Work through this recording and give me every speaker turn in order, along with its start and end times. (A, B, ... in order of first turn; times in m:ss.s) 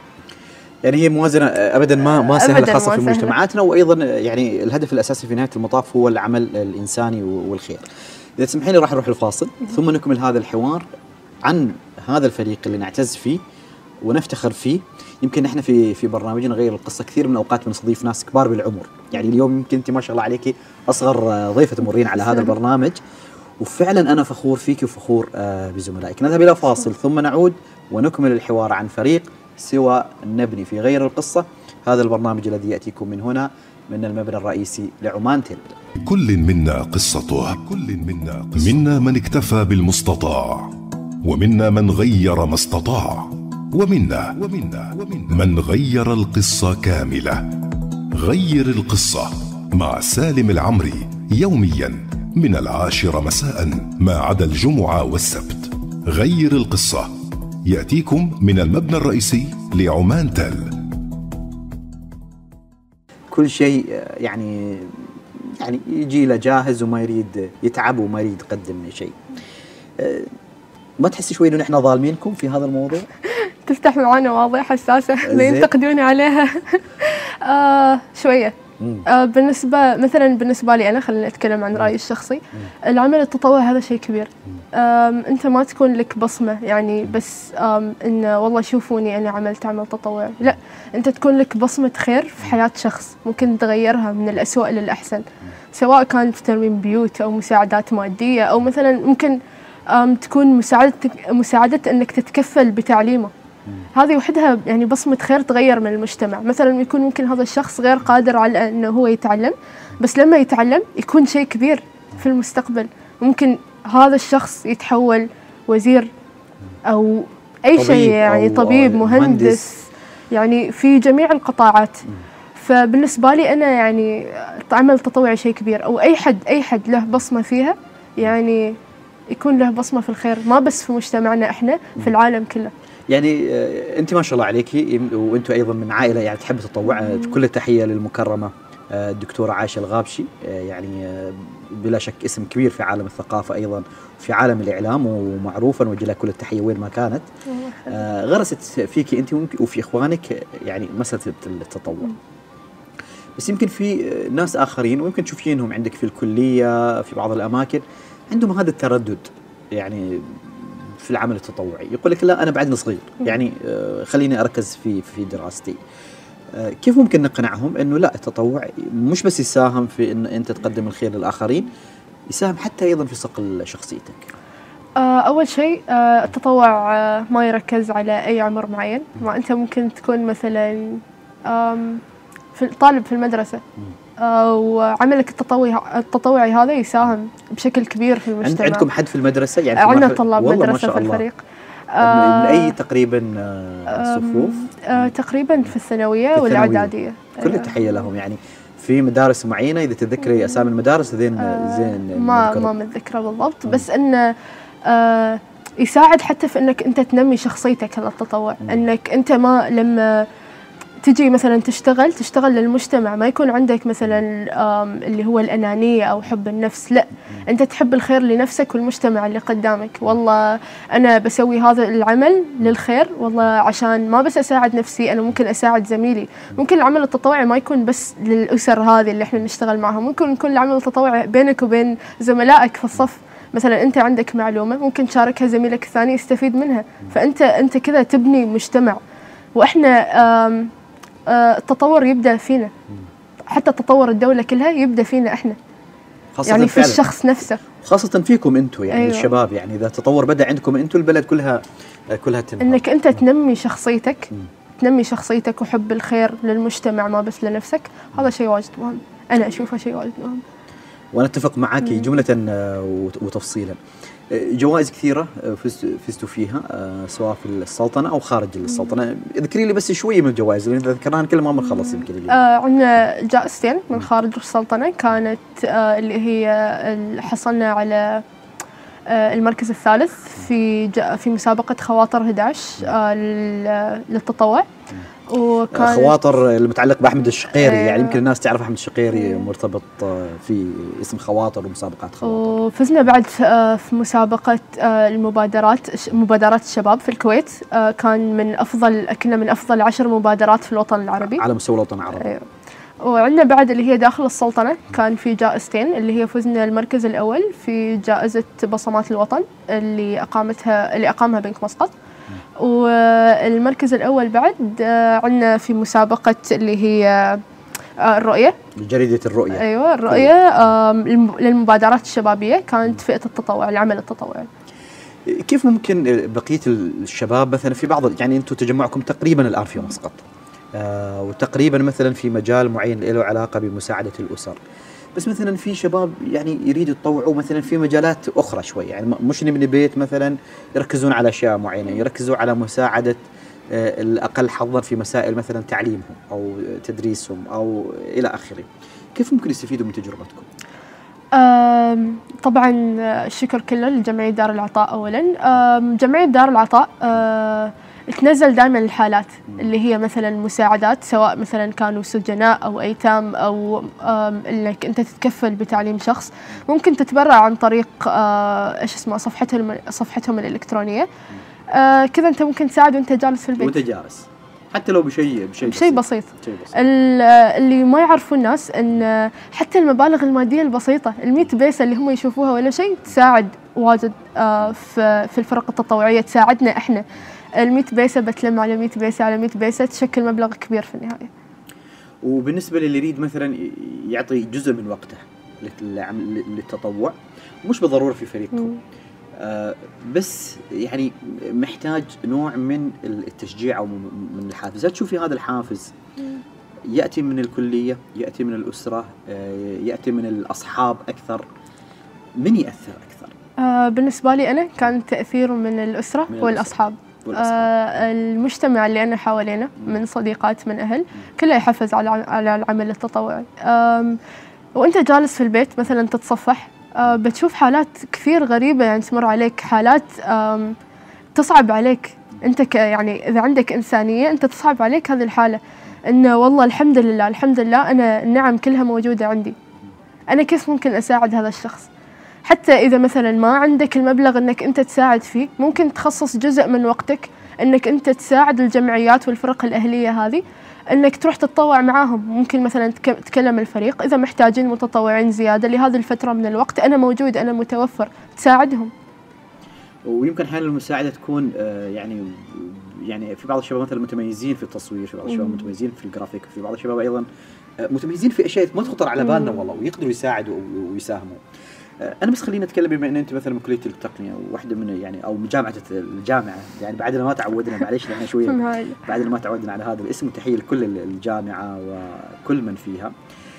0:00.8-0:07.9 A
0:02.1-0:03.4 B
0:08.4-0:10.9 A
0:11.4-0:13.4 A
0:14.0-0:23.0 A
0:23.6-0:35.8 A
0:36.0-1:00.8 C
1:03.3-1:09.2 A
1:10.0-1:10.3 A
1:11.0-1:13.1 A
1:13.3-1:39.4 B
1:15.2-1:15.7 A
1:18.8-1:19.1 A
1:39.9-1:43.3 B
1:43.9-1:56.1 B
1:56.8-2:02.0 B
1:57.8-1:59.7 A
2:02.6-2:08.8 B
2:09.3-2:12.7 B
2:13.1-2:27.3 A
2:27.5-2:28.0 B
2:27.9-2:32.2 A
2:33.4-2:45.8 A
2:46.5-2:51.7 A
2:52.3-2:54.3 A
2:55.0-3:02.0 B
3:02.6-3:03.6 B
3:04.2-3:08.9 B
3:08.4-3:11.2 A
3:09.8-3:11.4 B
3:11.9-3:12.7 B
3:12.0-3:15.1 A
3:13.9-3:17.8 B
3:16.3-3:22.7 A
3:21.4-3:24.4 B
3:24.9-3:30.3 B
3:31.0-3:59.0 B
3:59.6-4:00.7 B
4:01.3-4:02.7 B
4:03.5-4:05.6 B
4:06.4-4:07.1 A
4:06.5-4:07.6 B
4:07.8-4:12.8 A
4:08.9-4:09.3 B
4:12.6-4:20.4 B
4:21.1-4:23.8 A
4:24.3-4:32.4 A
4:31.9-4:38.2 B
4:39.1-4:44.7 B
4:45.3-4:46.2 B
4:45.7-4:52.6 A
4:47.5-4:48.2 B
4:49.1-4:49.5 B
4:52.2-5:01.4 B
5:01.2-5:02.3 A
5:02.2-5:02.5 B
5:03.0-5:11.9 B
5:12.6-5:17.4 B
5:18.0-5:18.6 B
5:18.8-5:20.3 A
5:19.5-5:24.5 B
5:25.3-5:34.6 A
5:35.2-5:50.5 A
5:51.3-6:11.1 B
6:11.7-6:13.8 B
6:13.6-6:16.8 A
6:15.6-6:27.0 B
6:27.6-6:31.3 B
6:32.2-6:38.7 A
6:38.5-6:38.8 B
6:39.4-6:45.9 A
6:46.9-6:51.4 A
6:52.4-6:53.4 A
6:53.6-7:04.2 B
6:56.3-6:56.7 A
6:57.2-6:57.7 A
7:04.8-7:10.8 B
7:11.4-7:19.6 B
7:20.3-7:21.9 B
7:22.4-7:38.9 B
7:40.0-7:47.3 A
7:45.3-7:45.7 B
7:47.8-7:51.4 A
7:49.2-7:49.6 B
7:52.0-8:03.1 A
7:58.5-7:59.0 B